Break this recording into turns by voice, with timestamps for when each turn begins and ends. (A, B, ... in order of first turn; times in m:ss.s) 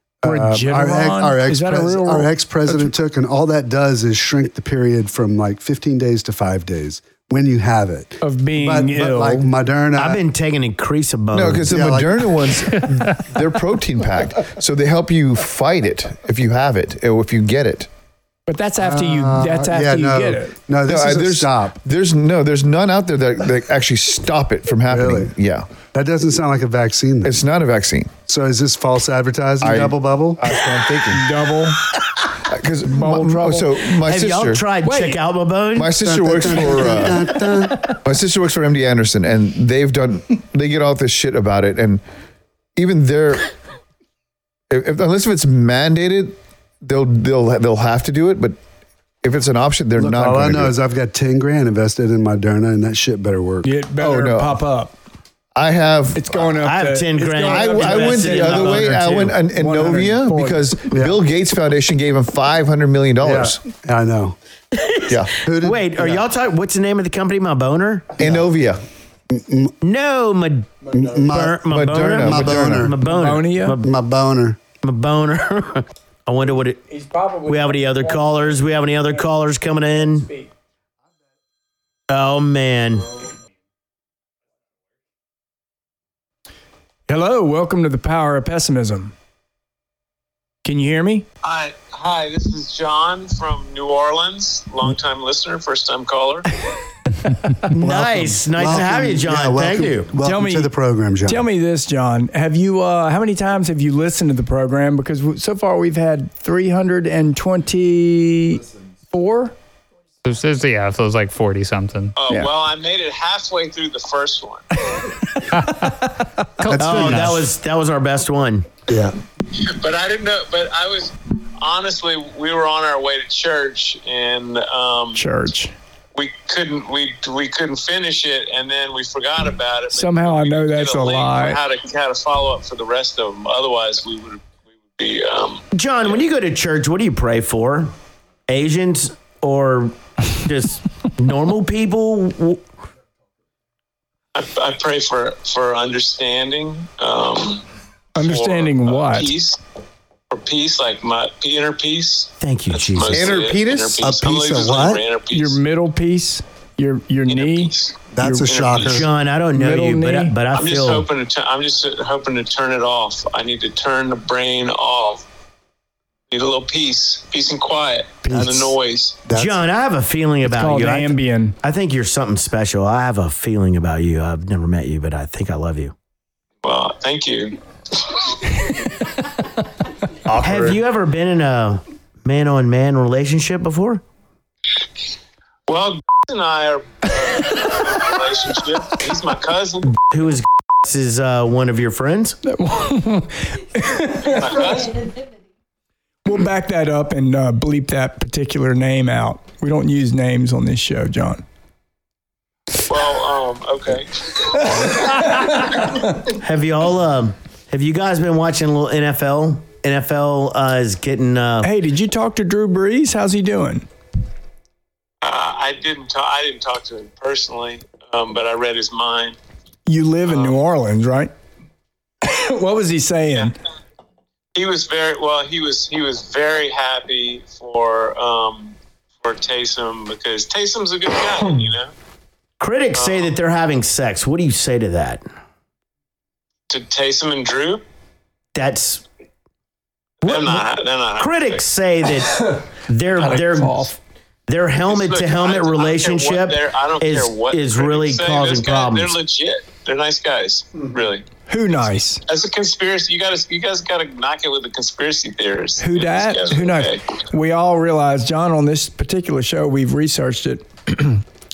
0:00.2-0:10.2 A
0:00.2-0:02.3 B
0:08.2-0:09.5 B
0:10.0-0:11.7 C
0:11.3-0:17.9 D
0:11.6-0:12.3 A
0:18.5-0:20.6 B
0:18.8-0:21.8 A
0:20.8-0:25.7 D
0:24.9-0:25.3 A
0:25.9-0:27.4 A
0:27.2-0:28.1 D
0:28.3-0:30.5 A
0:29.6-0:31.3 D
0:31.1-0:31.9 B
0:32.3-0:34.6 D
0:32.8-0:33.8 B
0:34.0-0:36.0 C
0:34.8-0:35.2 B
0:35.7-0:42.0 D
0:36.0-0:37.8 A
0:42.8-0:43.5 D
0:44.7-0:48.6 D
0:49.2-0:50.7 D
0:50.0-0:53.7 A
0:53.6-0:54.9 B
0:54.0-0:54.6 D
0:55.6-0:56.3 D
0:56.1-1:00.8 B
0:56.6-0:59.2 C
0:57.4-1:03.6 D
1:00.9-1:01.2 A
1:03.2-1:04.4 A
1:04.7-1:08.2 C
1:05.1-1:05.3 D
1:05.4-1:06.3 A
1:08.2-1:08.8 D
1:09.3-1:09.7 A
1:09.8-1:13.9 C
1:10.9-1:13.0 A
1:11.7-1:12.9 D
1:13.1-1:13.8 B
1:13.8-1:14.6 A
1:14.8-1:16.8 C
1:16.9-1:18.6 B
1:17.4-1:20.3 C
1:20.0-1:20.5 B
1:22.1-1:23.1 C
1:27.1-1:29.1 B
1:30.6-1:31.3 B
1:31.4-1:36.5 E
1:37.7-1:40.1 C
1:37.8-1:41.5 A
1:40.2-1:40.7 B
1:41.2-1:49.6 B
1:50.2-1:52.5 F
1:52.2-1:54.6 E
1:55.0-1:56.0 B
1:55.4-1:57.5 F
1:56.7-1:57.4 A
1:56.8-1:58.7 C
1:58.9-1:59.1 A
1:59.5-2:05.2 E
2:05.1-2:05.7 B
2:06.1-2:15.6 E
2:09.9-2:11.6 B
2:15.7-2:17.9 C
2:18.5-2:22.6 C
2:24.3-2:27.6 E
2:28.1-2:29.3 B
2:28.2-2:29.6 E
2:30.3-2:35.6 E
2:32.4-2:33.3 C
2:33.1-2:34.0 D
2:34.0-2:35.0 A
2:35.3-2:38.5 B
2:37.3-2:39.0 E
2:38.1-2:39.1 A
2:38.8-2:41.0 C
2:39.5-2:40.4 B
2:40.5-2:45.2 E
2:46.3-2:49.2 E
2:48.2-2:48.7 A
2:49.3-2:49.6 A
2:49.3-2:55.9 C
2:50.4-2:51.6 B
2:56.6-2:58.3 E
3:00.3-3:00.8 D
3:00.4-3:04.0 C
3:05.7-3:10.0 E
3:09.9-3:12.4 C
3:12.4-3:14.8 B
3:14.2-3:15.1 E
3:16.2-3:21.4 B
3:22.9-3:25.1 E
3:26.3-3:31.7 C
3:31.6-3:33.9 B
3:35.2-3:39.4 E
3:39.9-3:41.3 B
3:40.3-3:40.6 E
3:42.2-3:43.6 B
3:44.5-3:51.9 E
3:52.6-3:55.2 C
3:52.9-3:53.3 E
3:56.7-3:57.8 E
3:58.5-3:59.0 C
4:00.2-4:01.6 E
4:00.2-4:04.0 C
4:03.2-4:03.9 B
4:04.5-4:09.2 C
4:04.8-4:11.3 E
4:11.5-4:12.2 B
4:12.3-4:17.0 E
4:15.8-4:21.2 B